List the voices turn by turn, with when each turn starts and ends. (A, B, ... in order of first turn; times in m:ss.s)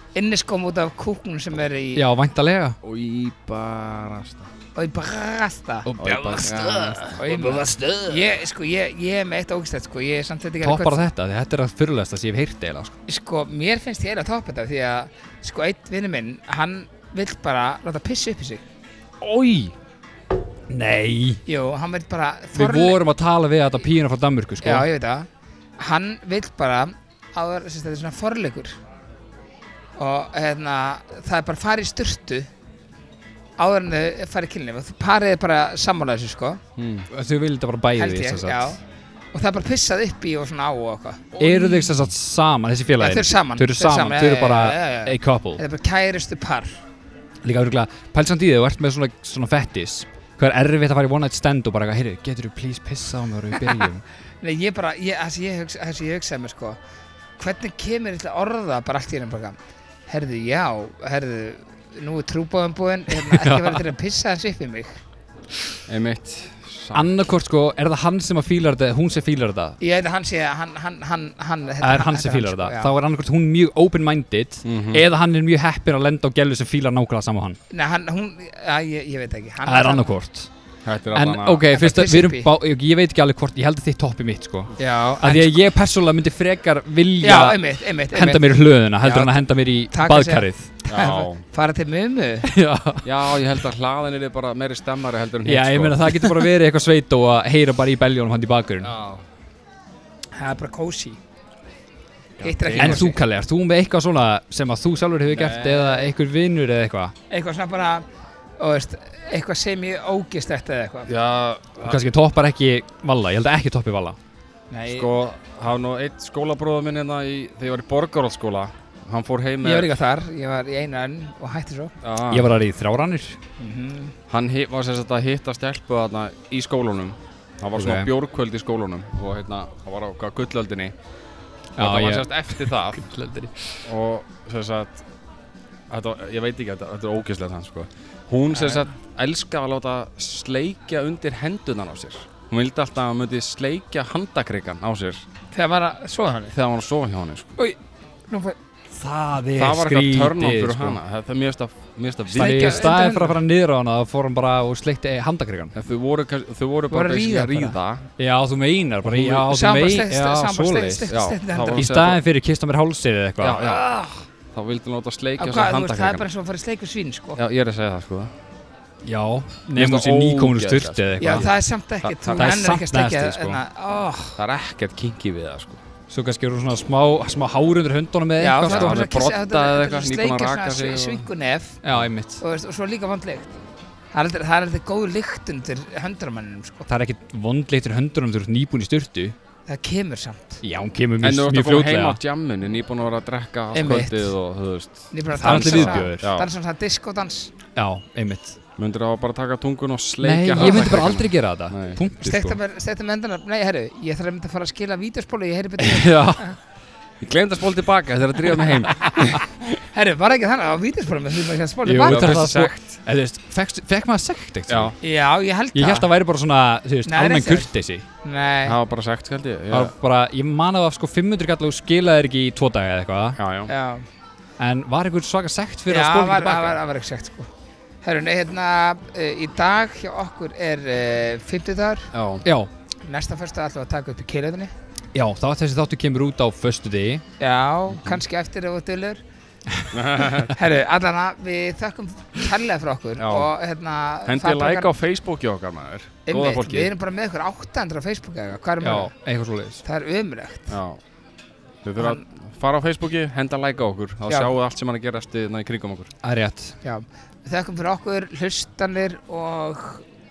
0:00.1-0:02.0 A
0:02.0-0:02.8 B
0:02.8-0:04.5 C
0:04.7-0:05.9 A
0:05.8-0:08.1 B
0:06.0-0:07.8 C
0:07.1-0:11.1 A
0:10.6-0:12.9 B
0:13.1-0:18.6 A
0:19.2-0:19.7 C
0:20.7-0:21.4 B
0:21.5-0:23.0 A
0:22.5-0:24.9 B
0:24.6-0:25.3 A
0:25.8-0:28.8 A
0:30.0-0:32.5 A
0:33.6-0:36.6 A
0:36.8-0:37.0 C
0:37.1-0:38.8 B
0:38.0-0:38.8 A
0:39.3-0:41.9 A
0:41.4-0:45.6 B
0:43.0-0:46.8 A
0:47.4-0:54.0 B
0:54.4-0:56.8 A
0:57.4-0:59.6 A
1:00.1-1:05.0 A
1:03.2-1:03.8 B
1:05.9-1:07.1 C
1:06.9-1:09.8 B
1:09.8-1:12.9 A
1:11.8-1:17.6 B
1:14.6-1:15.0 C
1:17.7-1:20.1 A
1:19.6-1:20.5 B
1:20.8-1:21.6 C
1:21.1-1:30.7 B
1:21.7-1:22.5 A
1:24.8-1:25.6 A
1:27.2-1:32.5 A
1:30.9-1:31.4 C
1:32.5-1:33.3 B
1:33.0-1:36.4 C
1:35.4-1:38.9 B
1:38.8-1:39.2 C
1:40.4-1:41.2 A
1:42.4-1:43.1 C
1:42.4-1:43.2 A
1:42.7-1:47.1 B
1:45.3-1:45.9 C
1:47.3-1:48.0 A
1:48.6-1:51.1 A
1:51.1-1:52.0 C
1:51.8-1:54.2 B
1:54.7-1:55.1 A
1:54.9-1:59.9 C
1:59.6-2:01.9 A
2:02.0-2:02.5 C
2:02.3-2:03.4 B
2:03.6-2:04.1 A
2:04.3-2:10.9 C
2:07.8-2:08.1 B
2:11.8-2:13.8 B
2:11.8-2:13.0 C
2:13.8-2:15.0 C
2:15.9-2:25.2 C
2:18.5-2:18.9 A
2:25.5-2:26.5 A
2:26.5-2:27.6 C
2:28.3-2:28.6 A
2:29.0-2:31.0 B
2:29.5-2:32.9 C
2:32.3-2:33.4 A
2:32.3-2:35.7 B
2:35.7-2:38.0 C
2:36.9-2:37.8 A
2:38.2-2:41.1 B
2:39.1-2:39.4 C
2:39.2-2:41.9 A
2:41.1-2:42.2 C
2:41.8-2:43.6 B
2:43.4-2:43.9 C
2:43.6-2:44.2 A
2:44.5-2:46.2 C
2:45.4-2:47.4 A
2:47.4-2:48.3 C
2:49.0-2:51.5 B
2:49.8-2:51.5 C
2:51.2-2:54.4 A
2:52.0-2:52.6 C
2:52.3-2:53.6 B
2:54.4-2:55.8 C
2:56.1-2:59.0 B
2:58.4-3:01.8 A
2:58.6-3:01.3 C
3:01.8-3:02.4 B
3:02.4-3:03.5 A
3:04.1-3:06.9 A
3:06.9-3:09.4 B
3:09.7-3:10.6 A
3:10.6-3:12.2 B
3:11.2-3:16.5 C
3:13.7-3:14.3 A
3:15.1-3:17.5 A
3:15.4-3:16.3 B
3:17.8-3:18.6 B
3:18.8-3:22.0 C
3:20.2-3:22.6 B
3:20.6-3:21.0 A
3:22.2-3:26.5 A
3:25.8-3:26.5 B
3:27.2-3:29.4 C
3:29.0-3:29.3 B
3:29.8-3:32.5 A
3:31.8-3:35.0 B
3:32.0-3:32.8 C
3:34.7-3:34.9 C
3:35.0-3:36.1 A
3:35.7-3:38.0 B
3:37.0-3:37.7 A
3:38.2-3:38.8 A
3:38.6-3:39.9 C
3:39.7-3:43.4 B
3:43.4-3:43.7 C
3:43.7-3:44.0 A
3:44.6-3:46.8 B
3:45.9-3:47.5 A
3:48.0-3:52.1 A
3:52.1-3:52.4 C
3:52.4-3:52.7 B
3:53.0-3:54.7 A
3:55.1-3:57.2 B
3:57.4-3:59.2 A
3:57.9-3:58.2 C
3:59.9-4:00.5 C
4:00.5-4:04.9 A
4:03.2-4:03.5 C
4:04.2-4:06.9 C
4:06.2-4:09.1 A
4:08.8-4:09.8 B
4:09.8-4:10.7 A
4:10.7-4:11.0 C
4:11.8-4:16.1 C
4:12.0-4:12.2 A
4:16.2-4:16.7 B
4:16.8-4:20.0 A